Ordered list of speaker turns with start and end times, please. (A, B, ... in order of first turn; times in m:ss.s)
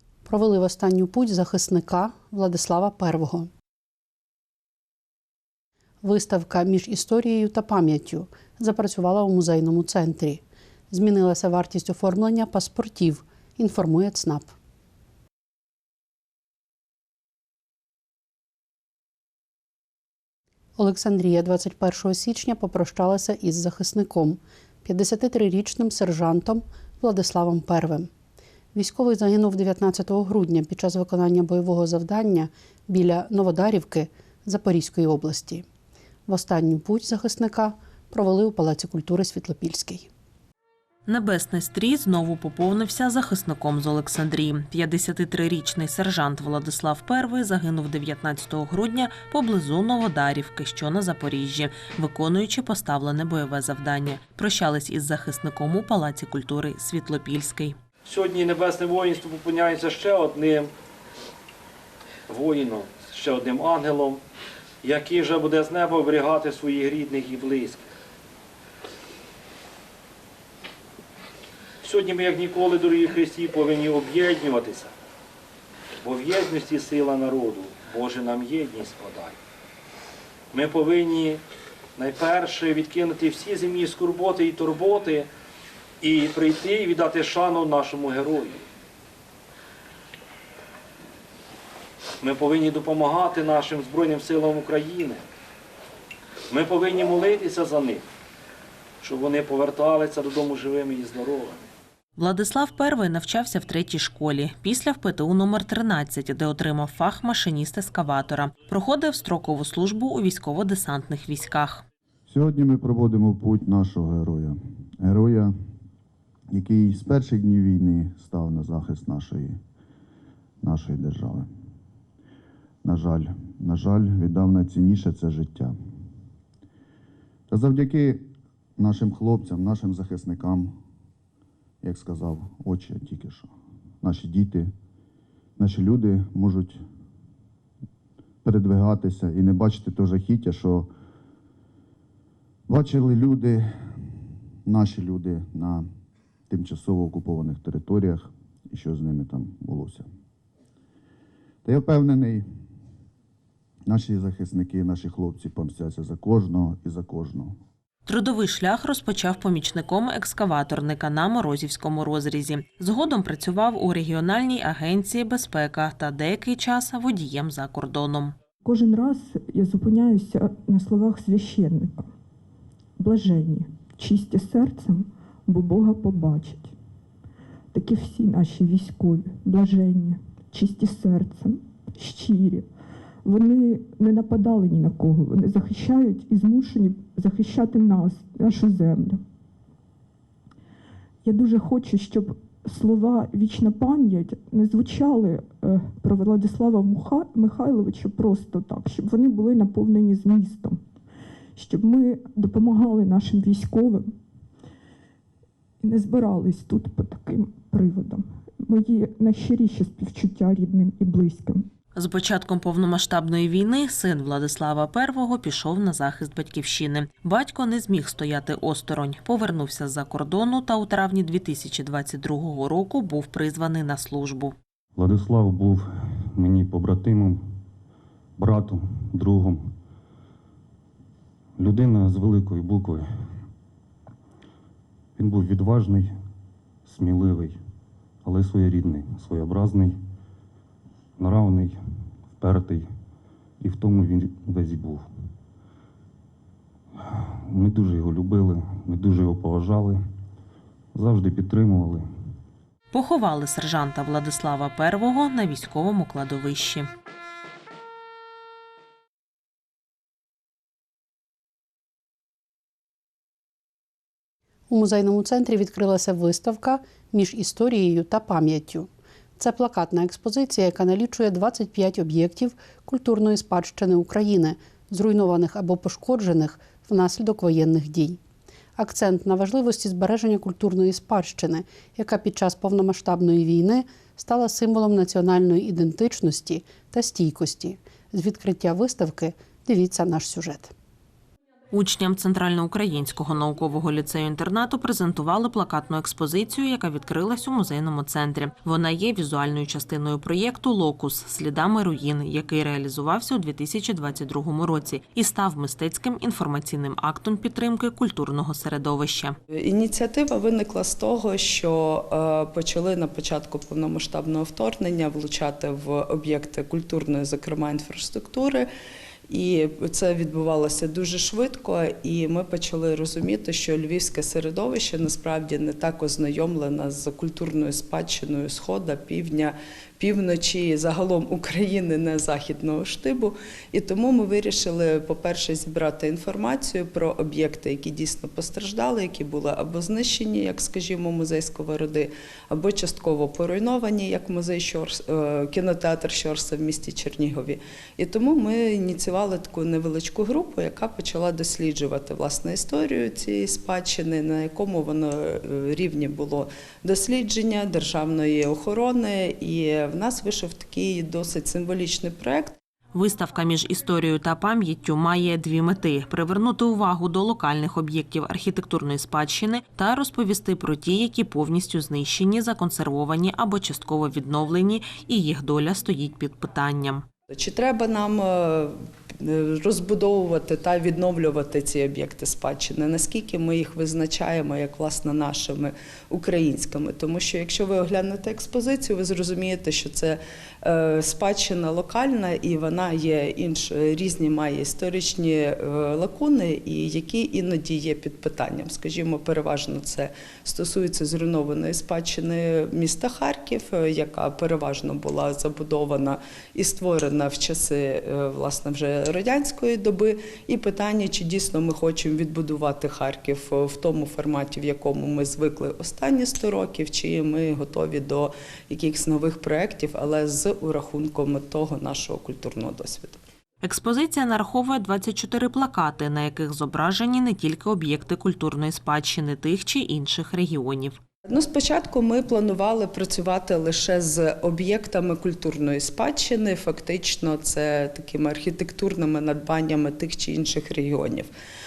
0:00.3-0:03.5 A
0:06.0-0:14.5 A
0:20.8-0:28.1 A
0:28.7-0:35.7 A
0:36.3-0:40.1 A
0:41.1-0:57.8 B
0:58.0-1:00.7 C
1:02.3-1:04.2 C
1:04.8-1:07.8 C
1:11.8-1:14.9 C
1:16.0-1:19.4 C
1:20.5-1:21.4 C
1:22.0-1:25.3 C
1:26.0-1:28.6 C
1:32.2-1:35.2 C
1:36.5-1:38.0 C
1:39.0-1:41.7 C
1:42.2-1:51.8 B
1:52.3-1:55.5 D
1:56.5-1:59.6 D
2:00.6-2:01.5 D
2:02.8-2:05.8 D
2:07.5-2:10.8 D
2:11.8-2:13.5 D
2:14.0-2:14.7 D
2:15.6-2:16.8 D
2:18.4-2:20.9 D
2:22.7-2:23.7 D
2:24.7-2:25.9 D
2:26.5-2:30.1 D
2:31.6-2:32.5 D
2:33.9-2:37.6 D
2:38.1-2:48.4 B
2:48.6-2:52.1 E
2:53.0-2:56.7 E
2:57.7-3:02.7 E
3:03.2-3:09.2 E
3:11.2-3:20.8 E
3:21.6-3:24.1 E
3:25.8-3:31.7 E
3:32.0-3:44.6 B
3:45.0-3:47.4 F
3:48.4-3:49.7 F
3:51.6-3:53.1 F
3:55.2-3:56.2 F
3:56.9-3:57.6 F
3:58.2-4:00.0 F
4:01.2-4:01.8 F
4:02.4-4:02.9 F
4:03.6-4:05.0 F
4:07.1-4:10.0 F
4:11.0-4:12.1 F
4:12.9-4:16.9 B
4:24.7-4:38.2 A
4:38.8-4:50.7 A
4:51.7-5:09.4 B
5:09.5-5:18.7 G
5:19.3-6:02.6 G
6:02.9-6:17.0 B
6:17.3-7:03.2 G
7:03.6-7:11.0 B
7:11.3-7:21.3 G